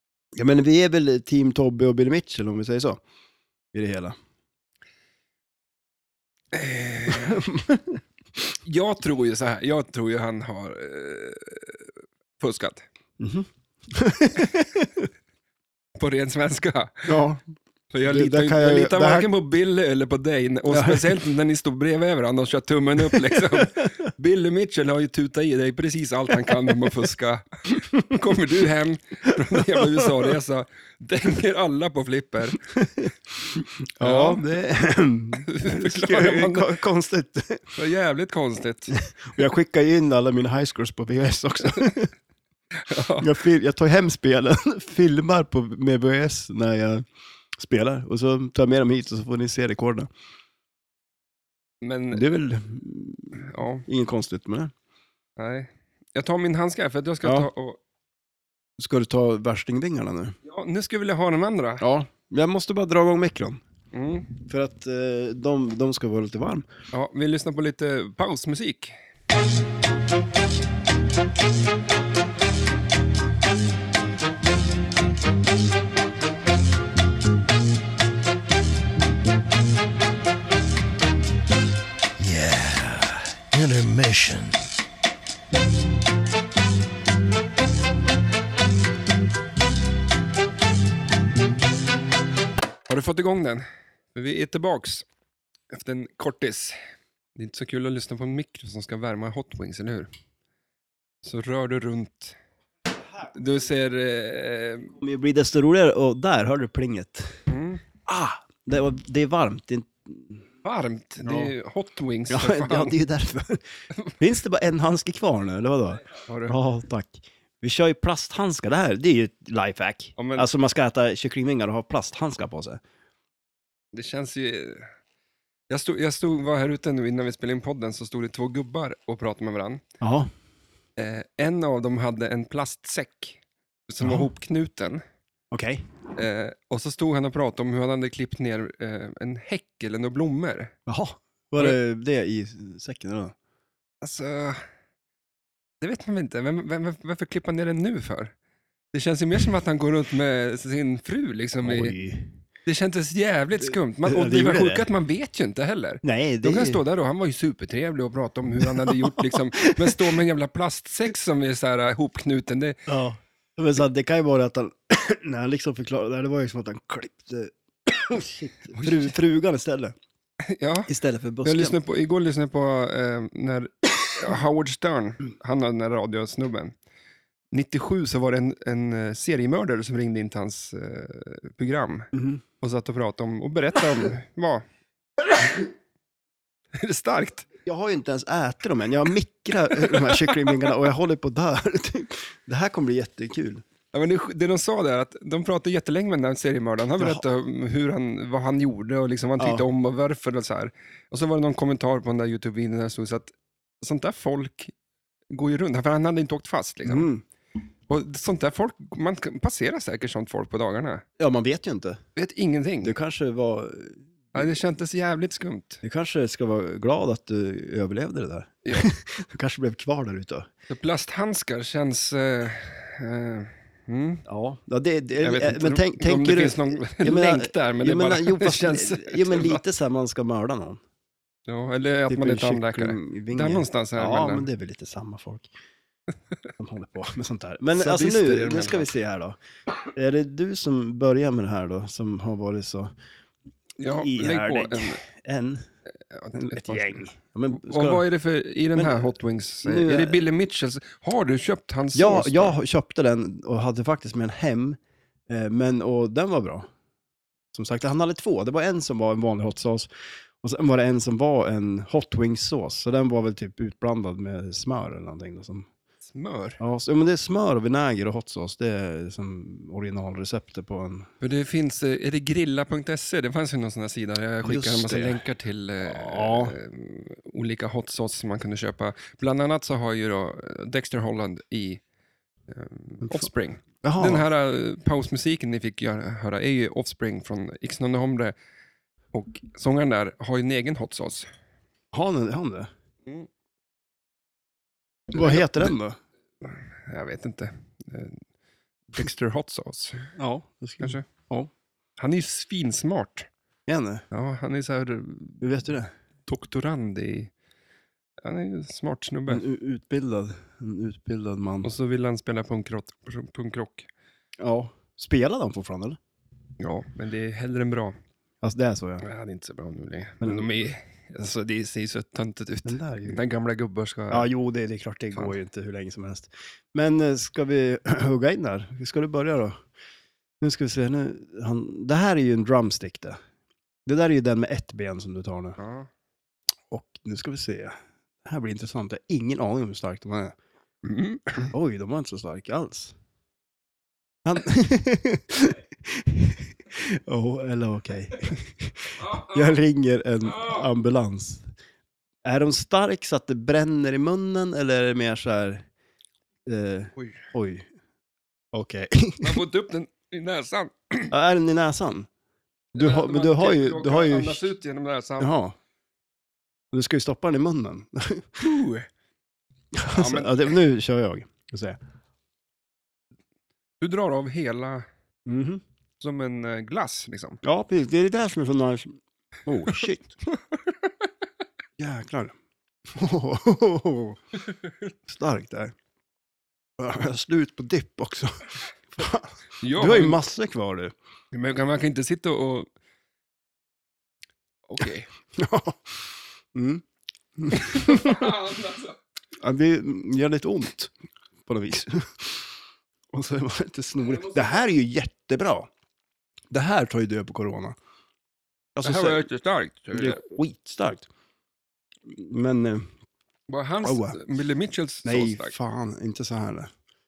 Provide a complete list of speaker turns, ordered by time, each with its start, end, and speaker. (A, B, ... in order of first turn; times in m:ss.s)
0:00.3-0:03.0 A
0:03.7-0:04.2 A
0:06.5-0:07.4 B
0:07.1-0:08.0 A
0:08.6-0:12.8 B
0:13.2-0:15.1 A
0:16.0-0:17.1 B
0:17.0-0:17.4 A
0:17.9-0:32.8 B
0:18.1-0:19.3 A
0:20.7-0:21.1 A
0:23.1-0:23.8 A
0:29.6-0:30.1 A
0:33.6-0:37.6 A
0:34.0-0:34.4 B
0:35.4-0:36.8 B
0:37.8-0:39.0 B
0:38.9-0:42.1 A
0:42.8-0:43.3 B
0:43.2-0:47.0 A
0:47.6-0:50.1 A
0:51.8-0:52.2 B
0:52.1-0:54.7 A
0:53.4-0:53.8 B
0:55.4-0:57.8 B
0:57.2-0:57.5 A
0:58.8-1:00.3 A
1:00.4-1:01.8 B
1:01.8-1:03.6 A
1:03.9-1:04.3 B
1:04.4-1:06.7 A
1:06.9-1:08.9 B
1:22.2-1:24.6 C
1:32.9-1:35.0 B
1:35.7-1:36.8 B
1:37.4-1:40.1 B
1:41.2-1:42.4 B
1:43.3-1:44.9 B
1:45.0-1:47.4 A
1:47.5-1:47.8 B
1:48.0-1:50.4 A
1:50.6-1:53.0 B
1:51.2-1:51.5 A
1:52.3-1:53.6 A
1:54.2-2:02.8 A
1:56.3-1:56.6 B
2:00.2-2:00.5 B
2:03.9-2:04.9 B
2:05.7-2:09.8 B
2:10.0-2:10.3 A
2:11.0-2:15.0 B
2:14.0-2:14.3 A
2:15.5-2:15.8 A
2:16.1-2:20.7 B
2:20.9-2:23.3 A
2:24.0-2:24.6 B
2:25.8-2:28.3 B
2:28.9-2:31.9 B
2:31.6-2:32.3 A
2:32.6-2:42.8 B
2:34.0-2:34.8 A
2:36.0-2:36.8 A
2:38.6-2:40.1 A
2:42.9-2:50.0 A
2:50.4-2:50.9 B
2:50.9-2:51.8 A
2:51.4-2:56.7 B
2:57.5-3:04.6 B
3:02.1-3:02.4 A
3:06.8-3:07.4 B
3:07.6-3:13.6 A
3:09.8-3:10.6 B
3:13.9-3:24.7 B
3:19.4-3:19.6 A
3:25.3-3:27.1 B
3:26.8-3:27.2 A
3:27.9-3:31.0 B
3:31.2-3:32.0 A
3:32.2-3:32.9 B
3:32.8-3:34.4 A
3:34.3-3:35.8 B
3:35.8-3:40.5 A
3:40.7-3:44.2 B
3:44.2-3:50.8 A
3:45.2-3:49.6 B
3:51.5-3:54.5 B
3:52.1-3:55.5 A
3:56.6-4:02.9 A
3:57.8-3:58.9 B
4:03.8-4:05.0 B
4:03.9-4:05.6 A
4:06.1-4:12.6 B
4:06.3-4:08.0 A
4:08.8-4:09.1 A
4:09.6-4:10.2 A
4:11.9-4:16.7 A
4:17.5-4:19.9 A
4:20.4-4:25.7 A
4:26.0-4:26.6 B
4:26.6-4:31.1 A
4:31.2-4:41.8 B
4:34.4-4:35.2 A
4:35.8-4:36.5 A
4:42.5-4:48.3 B
4:43.8-4:44.2 A
4:49.1-4:51.3 B
4:51.9-4:52.7 A
4:55.1-4:55.7 B
4:55.1-4:56.0 A
4:56.4-4:58.2 B
4:58.9-5:00.1 B
5:00.2-5:01.5 A
5:00.8-5:01.0 B
5:02.0-5:03.3 B
5:03.7-5:04.0 A
5:04.1-5:05.4 B
5:05.4-5:05.9 A
5:06.3-5:07.3 B
5:08.2-5:09.4 B
5:09.3-5:11.7 A
5:11.6-5:13.9 B
5:14.4-5:16.0 A
5:16.6-5:17.9 B
5:18.4-5:19.0 A
5:19.0-5:24.3 B
5:20.2-5:20.5 A
5:22.6-5:23.2 A
5:24.1-5:29.6 A
5:30.4-5:33.2 A
5:33.8-5:35.6 A
5:35.6-5:35.9 B
5:36.7-5:40.4 A
5:40.8-5:41.5 B
5:41.5-5:42.9 A
5:44.2-5:51.5 A
5:49.0-5:49.5 B
5:52.2-5:55.6 A
5:56.4-5:57.7 A
5:57.0-5:57.2 B
5:58.5-5:59.4 A
5:59.2-6:01.1 B
6:01.1-6:02.1 A
6:02.7-6:04.4 A
6:02.7-6:05.3 B
6:05.2-6:05.5 A
6:06.7-6:08.4 A
6:08.4-6:08.9 B
6:09.7-6:11.8 A
6:09.9-6:10.6 B
6:13.8-6:14.8 B
6:15.2-6:15.6 A
6:16.0-6:17.4 B
6:17.4-6:20.1 A
6:20.5-6:20.9 B
6:21.8-6:22.3 A
6:22.9-6:24.2 A
6:25.0-6:25.7 A
6:26.8-6:30.9 A
6:29.6-6:30.2 B
6:31.3-6:32.7 B
6:34.7-6:35.1 B
6:35.3-6:36.8 A
6:37.4-6:38.4 A
6:37.5-6:39.0 B
6:39.4-6:40.9 A
6:41.4-6:42.5 A
6:43.1-6:45.7 A
6:44.1-6:44.4 B
6:46.5-6:47.8 A
6:48.7-6:49.2 A
6:48.8-6:50.2 B
6:49.9-6:51.1 A
6:52.1-6:52.9 A
6:53.5-6:55.5 B
6:53.8-6:54.2 A
6:55.0-6:56.7 A